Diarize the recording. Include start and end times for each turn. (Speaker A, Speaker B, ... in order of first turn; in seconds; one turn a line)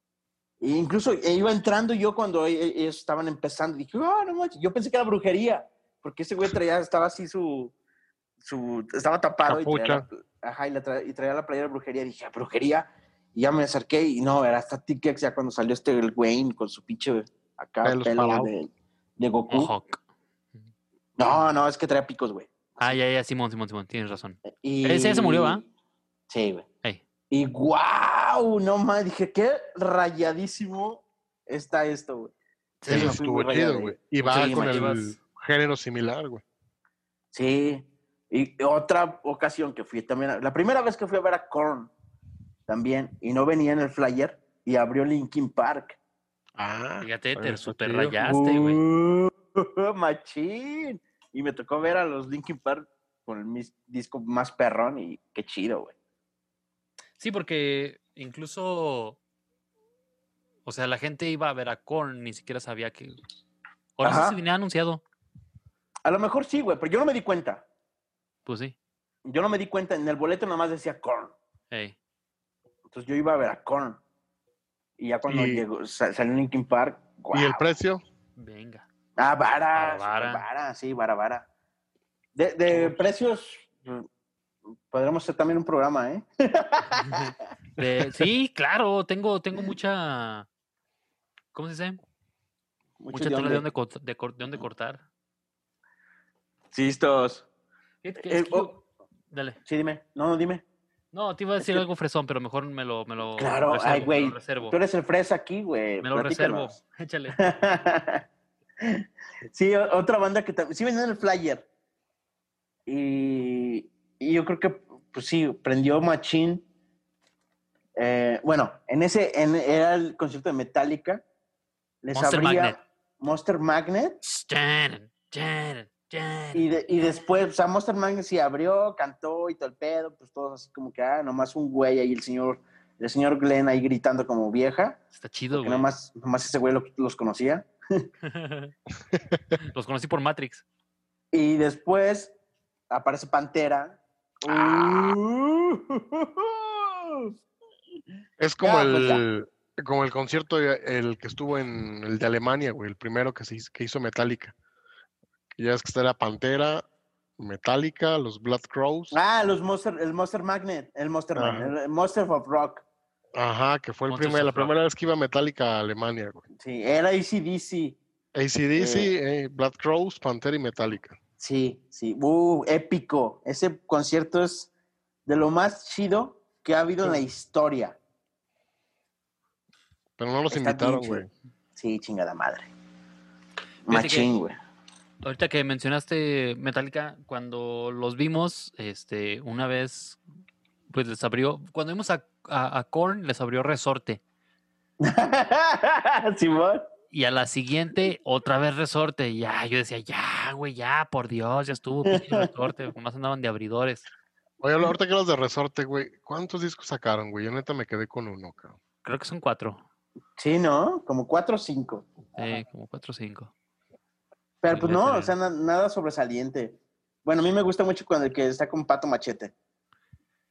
Speaker A: 0.6-7.7
Speaker A: 8.4-19.7
Speaker B: 9.4-10.1
Speaker B: 17.8-18.5
Speaker C: 19.5-20.0
Speaker A: 21.2-23.0
Speaker C: 22.8-25.6
Speaker A: 24.5-25.7
Speaker A: 26.3-26.7
Speaker A: 27.3-32.3
Speaker C: 32.8-33.2
Speaker B: 32.8-36.4
Speaker A: 32.9-34.9
Speaker C: 34.2-35.2
Speaker A: 37.3-41.9
Speaker A: 42.7-46.0
Speaker B: 46.6-48.2
Speaker C: 47.0-48.8
Speaker A: 48.2-56.0
Speaker C: 57.2-59.2
Speaker C: 60.6-63.2
Speaker C: 64.0-65.0
Speaker A: 64.0-64.4
Speaker A: 66.0-67.7
Speaker C: 68.5-68.8
Speaker A: 69.2-71.3
Speaker C: 71.7-72.0
Speaker A: 72.9-74.0
Speaker A: 75.0-77.7
Speaker B: 75.3-75.7
Speaker B: 77.3-78.0
Speaker C: 78.4-78.9
Speaker A: 79.2-81.5
Speaker C: 79.8-80.5
Speaker A: 82.3-84.1
Speaker A: 84.9-87.3
Speaker C: 87.0-90.5
Speaker C: 91.5-92.0
Speaker A: 93.0-93.6
Speaker C: 93.1-95.0
Speaker A: 96.7-97.5
Speaker C: 98.0-98.8
Speaker A: 98.3-98.8
Speaker C: 99.3-99.6
Speaker A: 99.7-100.6
Speaker C: 101.1-104.8
Speaker A: 103.4-106.8
Speaker C: 106.0-107.4
Speaker A: 107.4-108.2
Speaker A: 108.8-111.7
Speaker A: 112.9-116.6
Speaker A: 118.0-121.2
Speaker A: 122.0-124.2
Speaker C: 122.1-122.8
Speaker C: 124.2-126.7
Speaker A: 126.5-135.0
Speaker C: 135.1-135.9
Speaker A: 135.5-138.1
Speaker C: 138.2-138.7
Speaker C: 139.6-140.6
Speaker A: 141.3-142.3
Speaker A: 142.9-147.3
Speaker B: 144.4-145.2
Speaker B: 148.4-154.6
Speaker A: 148.6-149.2
Speaker B: 155.6-156.8
Speaker B: 157.4-159.2
Speaker A: 159.1-162.8
Speaker B: 161.3-161.7
Speaker B: 163.4-166.4
Speaker C: 164.1-164.7
Speaker A: 166.6-168.0
Speaker B: 168.3-171.2
Speaker A: 168.8-169.1
Speaker A: 171.4-174.7
Speaker A: 175.3-178.0
Speaker B: 180.2-181.3
Speaker A: 180.5-182.7
Speaker A: 183.9-184.6
Speaker C: 183.9-184.3
Speaker C: 185.2-190.2
Speaker C: 190.9-194.2
Speaker A: 195.0-196.9
Speaker C: 197.1-204.1
Speaker A: 202.1-202.5
Speaker B: 204.6-208.8
Speaker C: 209.0-209.8
Speaker A: 210.4-212.6
Speaker C: 212.4-213.5
Speaker A: 214.6-219.5
Speaker C: 214.7-215.3